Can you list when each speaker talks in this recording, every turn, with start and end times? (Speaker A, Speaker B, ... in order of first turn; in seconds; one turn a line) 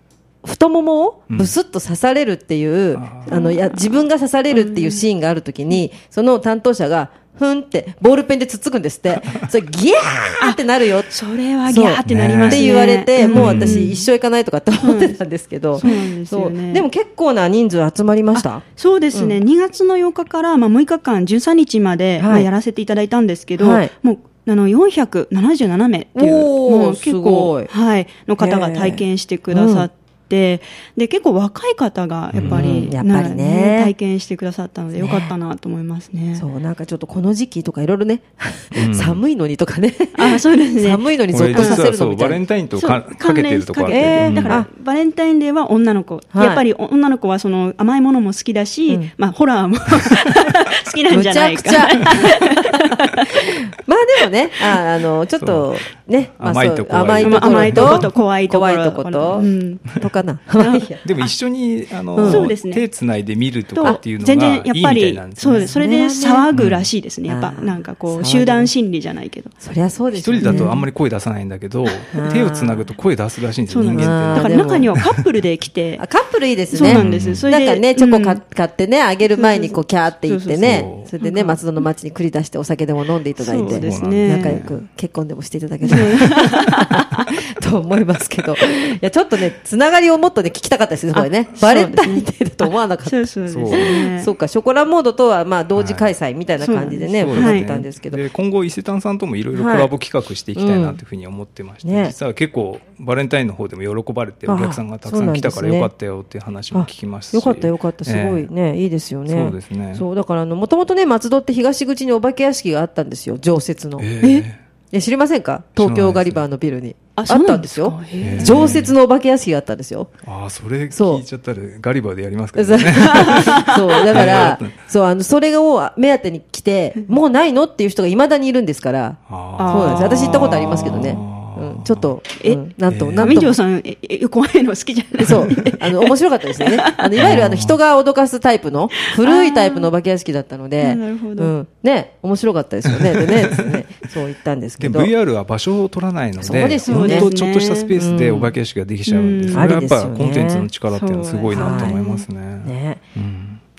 Speaker A: 0.4-11.1
Speaker B: 2.9-3.4
Speaker C: 3.3-5.0
Speaker C: 11.1-14.1
Speaker A: 11.7-19.4
Speaker B: 12.1-12.8
Speaker B: 13.3-13.9
Speaker C: 14.8-15.2
Speaker C: 15.8-16.9
Speaker C: 18.3-36.5
Speaker A: 22.2-22.5
Speaker A: 23.6-23.9
Speaker A: 26.2-27.7
Speaker A: 28.4-29.9
Speaker B: 32.3-32.7
Speaker A: 32.4-33.9
Speaker A: 35.0-35.4
Speaker A: 36.4-42.4
Speaker B: 38.7-39.2
Speaker C: 40.1-41.9
Speaker B: 41.3-44.6
Speaker C: 42.7-53.2
Speaker A: 43.9-44.7
Speaker A: 46.3-46.6
Speaker A: 51.1-52.8
Speaker A: 53.3-61.0
Speaker B: 55.4-55.7
Speaker B: 56.4-58.1
Speaker C: 57.2-59.9
Speaker C: 60.6-61.3
Speaker B: 61.0-65.7
Speaker A: 62.1-62.5
Speaker C: 62.2-62.9
Speaker C: 63.7-69.5
Speaker A: 65.5-66.5
Speaker B: 66.5-66.9
Speaker A: 67.3-68.7
Speaker A: 69.6-70.7
Speaker B: 70.2-75.1
Speaker C: 70.4-70.9
Speaker A: 72.1-72.9
Speaker C: 73.7-76.0
Speaker A: 73.9-75.0
Speaker A: 76.0-98.2
Speaker C: 76.7-78.4
Speaker B: 76.8-77.5
Speaker C: 79.3-81.6
Speaker B: 80.6-81.1
Speaker C: 83.4-84.6
Speaker B: 83.7-84.8
Speaker C: 85.8-87.3
Speaker C: 91.1-94.3
Speaker B: 93.5-94.0
Speaker B: 95.8-96.1
Speaker C: 96.6-97.7
Speaker B: 97.1-108.5
Speaker A: 99.5-99.9
Speaker A: 100.5-101.0
Speaker A: 101.8-102.2
Speaker A: 104.5-105.9
Speaker A: 106.7-120.1
Speaker B: 109.3-110.0
Speaker B: 114.0-114.6
Speaker B: 115.8-116.4
Speaker C: 117.2-118.8
Speaker B: 118.2-118.9
Speaker B: 120.2-123.6
Speaker A: 120.9-121.2
Speaker A: 122.5-133.6
Speaker C: 123.2-124.2
Speaker B: 124.1-124.8
Speaker B: 129.3-132.1
Speaker C: 129.6-131.2
Speaker B: 132.9-133.5
Speaker C: 133.2-137.2
Speaker A: 135.2-145.1
Speaker B: 137.2-137.8
Speaker C: 139.2-139.9
Speaker C: 140.8-141.5
Speaker B: 142.9-143.8
Speaker B: 144.8-153.6
Speaker A: 146.4-147.3
Speaker C: 146.8-147.9
Speaker A: 147.9-148.6
Speaker C: 149.1-149.8
Speaker A: 149.5-150.7
Speaker C: 150.9-152.3
Speaker A: 151.5-152.0
Speaker A: 152.6-153.0